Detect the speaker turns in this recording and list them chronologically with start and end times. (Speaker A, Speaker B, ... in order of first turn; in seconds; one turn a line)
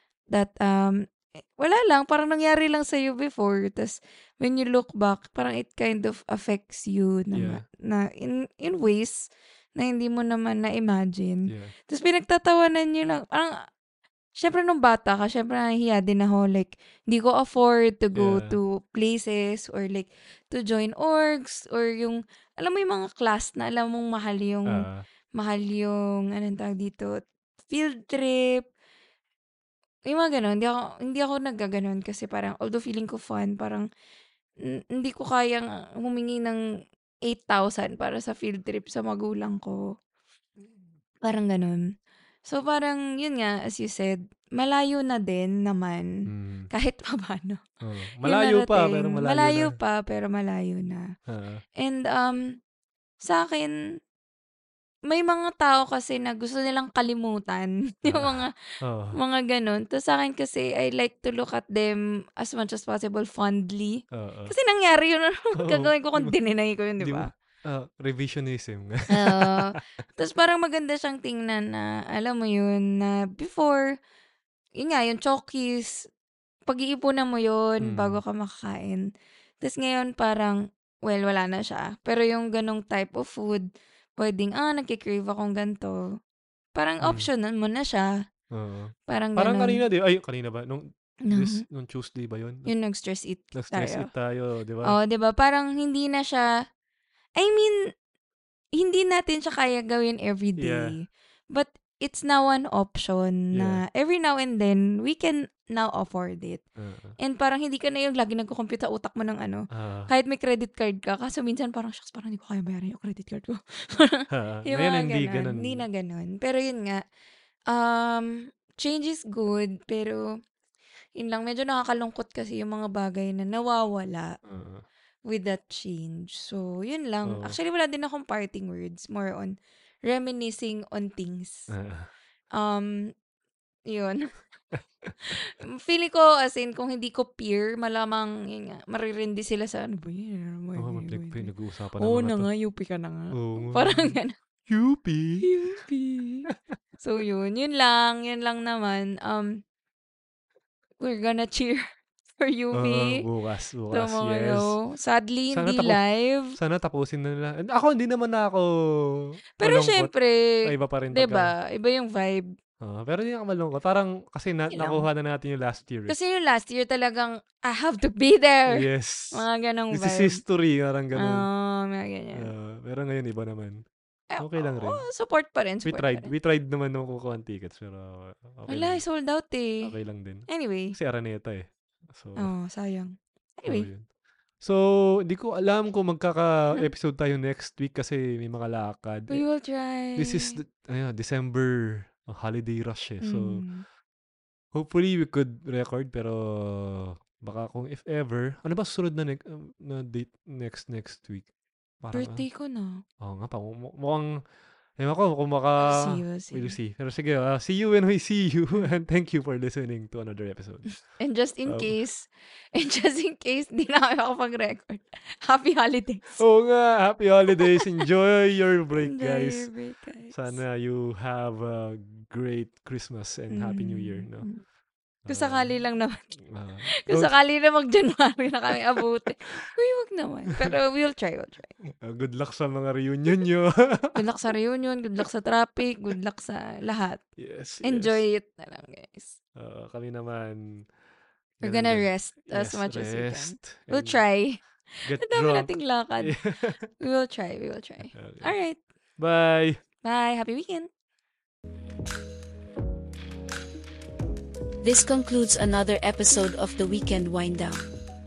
Speaker A: 0.3-13.6
Speaker B: 7.3-7.6
Speaker B: 11.5-11.7
Speaker A: 14.3-28.6
Speaker B: 18.1-18.6
Speaker B: 24.7-25.0
Speaker A: 30.1-33.9
Speaker A: 34.6-36.6
Speaker A: 37.2-39.8
Speaker A: 41.2-41.9
Speaker A: 42.4-46.1
Speaker B: 46.3-46.7
Speaker A: 46.7-47.6
Speaker B: 47.8-49.8
Speaker A: 48.2-51.1
Speaker B: 51.3-51.6
Speaker A: 51.8-52.5
Speaker A: 53.2-53.7
Speaker A: 55.1-58.5
Speaker B: 58.0-59.1
Speaker A: 59.1-67.3
Speaker B: 64.1-64.5
Speaker B: 65.6-66.3
Speaker B: 67.0-69.8
Speaker A: 69.1-73.8
Speaker A: 74.8-76.0
Speaker A: 76.7-79.0
Speaker B: 77.8-78.2
Speaker A: 79.6-86.0
Speaker A: 86.7-88.1
Speaker B: 87.0-87.3
Speaker B: 88.5-92.7
Speaker A: 89.1-89.8
Speaker A: 91.2-91.6
Speaker A: 92.7-94.1
Speaker B: 93.5-95.0
Speaker A: 94.8-96.5
Speaker A: 97.4-97.8
Speaker A: 98.7-106.6
Speaker B: 100.6-101.0
Speaker B: 103.5-103.8
Speaker B: 106.8-107.2
Speaker A: 107.2-117.0
Speaker B: 109.7-110.1
Speaker B: 114.3-115.8
Speaker A: 117.7-120.2
Speaker A: 121.2-124.3
Speaker B: 124.5-124.8
Speaker A: 125.3-129.5
Speaker B: 127.2-127.6
Speaker A: 130.1-131.7
Speaker B: 131.7-132.1
Speaker A: 132.5-133.1
Speaker A: 133.9-134.3
Speaker A: 135.2-144.3
Speaker B: 140.8-142.5
Speaker B: 143.3-145.5
Speaker A: 145.4-146.5
Speaker A: 147.0-149.6
Speaker A: 151.0-151.8
Speaker A: 152.4-153.2
Speaker B: 152.7-154.8
Speaker A: 153.9-156.6
Speaker B: 155.5-156.0
Speaker B: 156.5-160.1
Speaker A: 159.6-162.4
Speaker B: 160.6-161.5
Speaker B: 162.8-166.1
Speaker A: 164.7-165.0
Speaker A: 166.1-170.4
Speaker B: 168.7-171.5
Speaker A: 171.1-172.5
Speaker B: 172.3-173.8
Speaker A: 174.3-176.3
Speaker B: 174.4-175.0
Speaker B: 175.8-179.0
Speaker A: 178.7-179.9
Speaker B: 179.8-182.5
Speaker A: 180.5-181.0
Speaker A: 182.4-183.9
Speaker B: 183.7-184.0
Speaker B: 184.6-189.4
Speaker A: 189.3-190.6
Speaker B: 190.2-193.6
Speaker A: 193.2-193.8
Speaker B: 194.7-201.5
Speaker B: 202.0-202.4
Speaker A: 202.1-203.0
Speaker B: 203.2-204.4
Speaker B: 205.0-210.9
Speaker A: 205.8-206.8
Speaker A: 208.7-209.0
Speaker A: 211.2-216.4
Speaker B: 211.7-211.9
Speaker B: 216.4-219.7
Speaker A: 218.9-220.6
Speaker B: 220.3-224.5
Speaker A: 223.5-224.6
Speaker B: 225.3-225.7
Speaker A: 225.3-226.3
Speaker B: 226.5-227.3
Speaker A: 226.9-231.7
Speaker B: 231.9-234.2
Speaker A: 234.1-237.2
Speaker B: 237.4-238.2
Speaker A: 237.8-239.3
Speaker B: 239.6-240.8
Speaker B: 241.6-244.2
Speaker A: 241.6-246.3
Speaker B: 245.0-246.8
Speaker A: 247.0-248.8
Speaker B: 248.1-248.5
Speaker B: 249.2-249.8
Speaker A: 250.0-250.9
Speaker C: 254.8-257.9